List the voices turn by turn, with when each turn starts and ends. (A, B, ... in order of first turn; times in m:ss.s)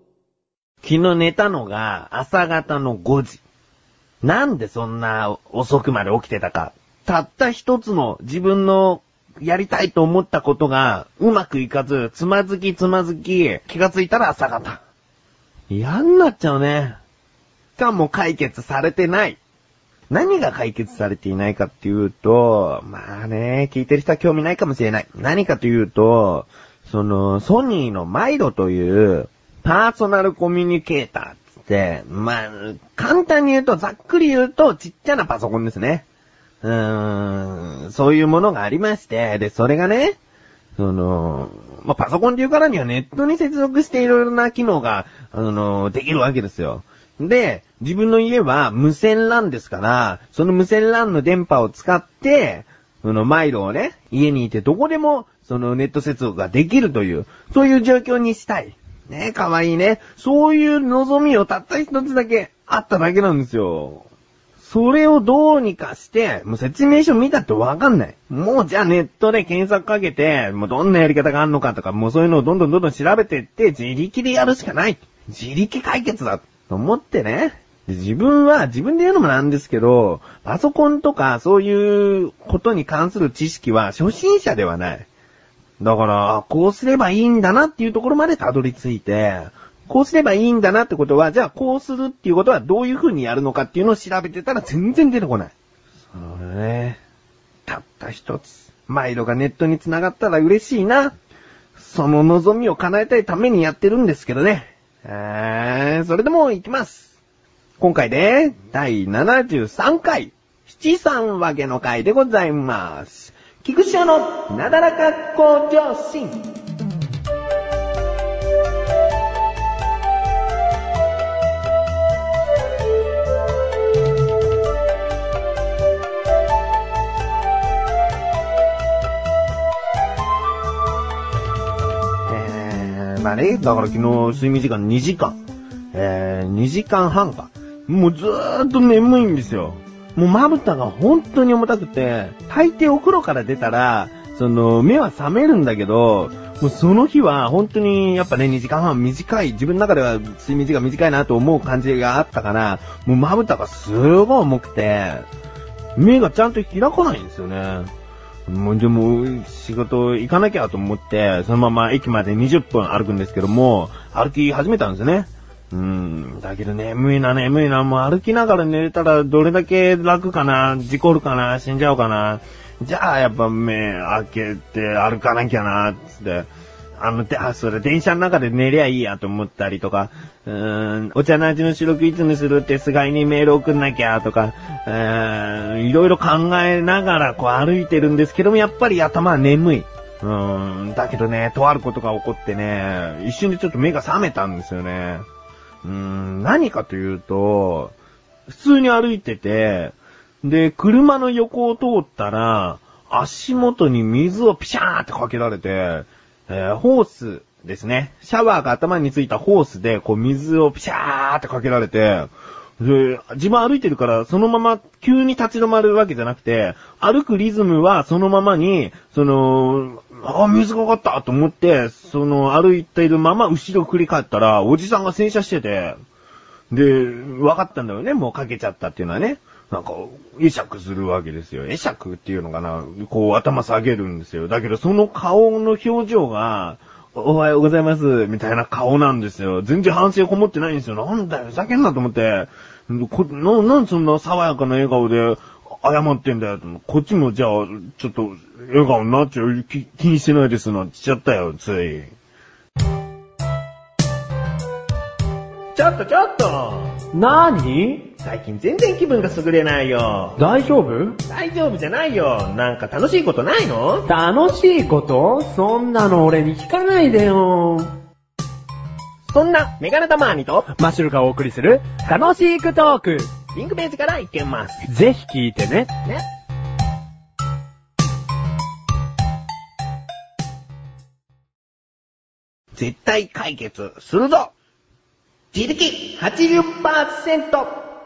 0:00.8-0:03.4 A
0:04.2-0:14.8 A
0:15.7-0:17.0 A
0:17.8-0:19.4 A
0:20.1-0:36.1 A
0:36.6-0:40.2 A
0:40.8-1:04.1 A
1:04.6-1:25.1 A
1:25.8-1:35.5 A
1:36.1-1:37.0 A
1:37.7-1:41.2 A
1:41.8-1:47.2 A
1:47.8-1:56.4 A
2:12.3-2:15.4 A
2:15.9-2:35.3 A
2:36.0-2:37.9 A
2:38.5-3:15.3 A
3:15.8-3:18.0 A
3:18.5-3:46.0 A
3:46.7-4:12.1 A
4:15.8-4:17.0 A
4:17.1-4:18.0 B
4:18.2-4:20.4 A
4:20.4-4:21.2 B
4:21.3-4:24.1 A
4:24.1-4:27.9 B
4:29.3-4:30.8 A
4:30.7-4:33.3 B
4:33.5-4:34.9 A
4:34.8-4:35.9 B
4:42.7-4:44.5 A
4:45.5-4:47.7 A